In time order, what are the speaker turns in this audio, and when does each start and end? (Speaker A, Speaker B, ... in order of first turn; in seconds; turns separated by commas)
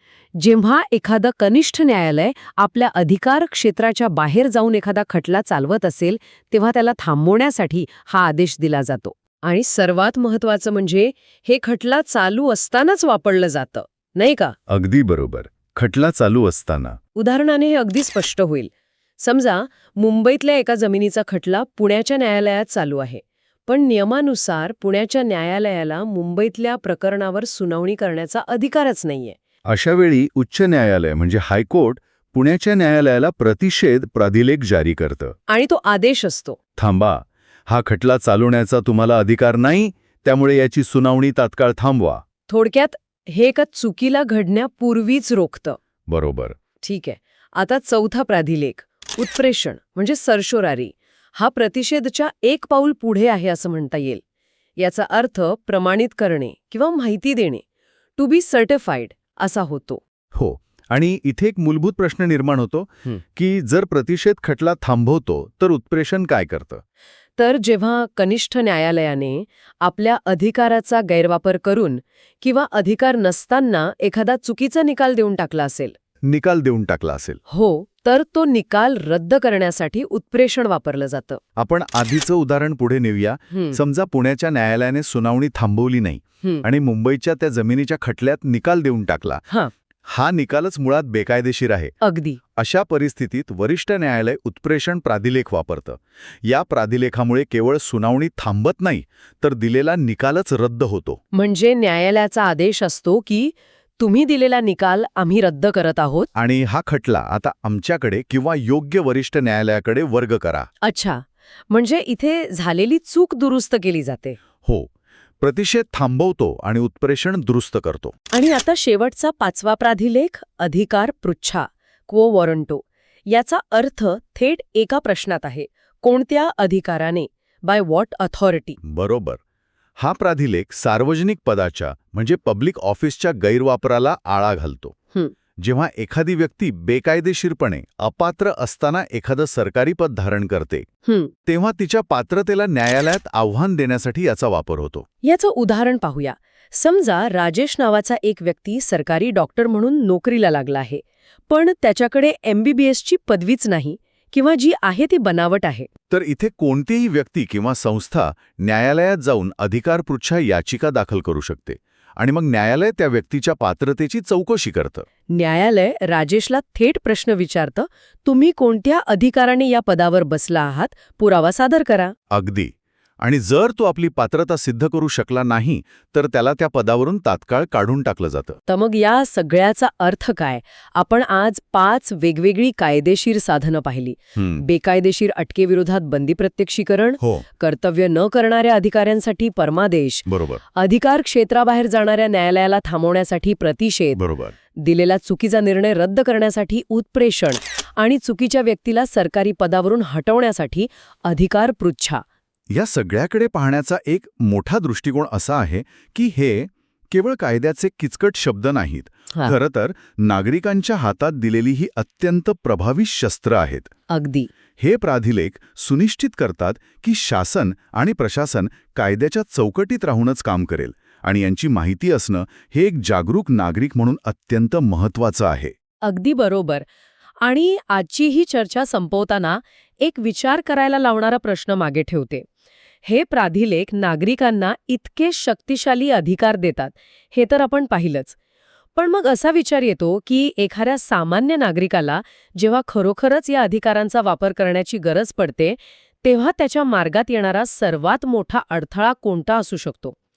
Speaker A: 0.4-14.5, Speaker B: 14.7-17.0, Speaker A: 17.1-29.4, Speaker B: 29.6-35.4, Speaker A: 35.5-36.6, Speaker B: 36.8-42.2, Speaker A: 42.5-45.8, Speaker B: 46.1-46.6, Speaker A: 46.8-54.2, Speaker A: 54.8-57.6, Speaker A: 58.2-60.0, Speaker B: 60.3-66.8, Speaker A: 67.4-75.9, Speaker B: 76.2-77.4, Speaker A: 77.5-81.4, Speaker B: 81.6-89.4, Speaker A: 83.5-83.8, Speaker B: 90.1-91.9, Speaker A: 92.0-92.4, Speaker B: 92.5-101.2, Speaker A: 101.3-106.3, Speaker B: 106.3-110.7, Speaker A: 110.8-114.4, Speaker B: 114.6-114.9, Speaker B: 115.4-118.1, Speaker A: 118.3-128.8, Speaker B: 128.8-129.4, Speaker B: 130.0-134.9, Speaker B: 135.6-140.8, Speaker A: 141.1-141.3, Speaker B: 141.5-145.1, Speaker A: 145.2-155.9, Speaker B: 156.1-165.1, Speaker A: 165.3-172.1, Speaker B: 172.3-178.6, Speaker A: 178.7-194.2, Speaker B: 184.3-184.6, Speaker B: 187.2-187.4, Speaker B: 190.3-190.6, Speaker B: 194.2-194.5, Speaker A: 194.8-202.2, Speaker B: 202.7-213.9, Speaker A: 214.1-214.5, Speaker B: 214.8-225.7, Speaker A: 226.0-226.8, Speaker A: 227.4-232.4, Speaker A: 233.0-238.4, Speaker A: 238.9-250.2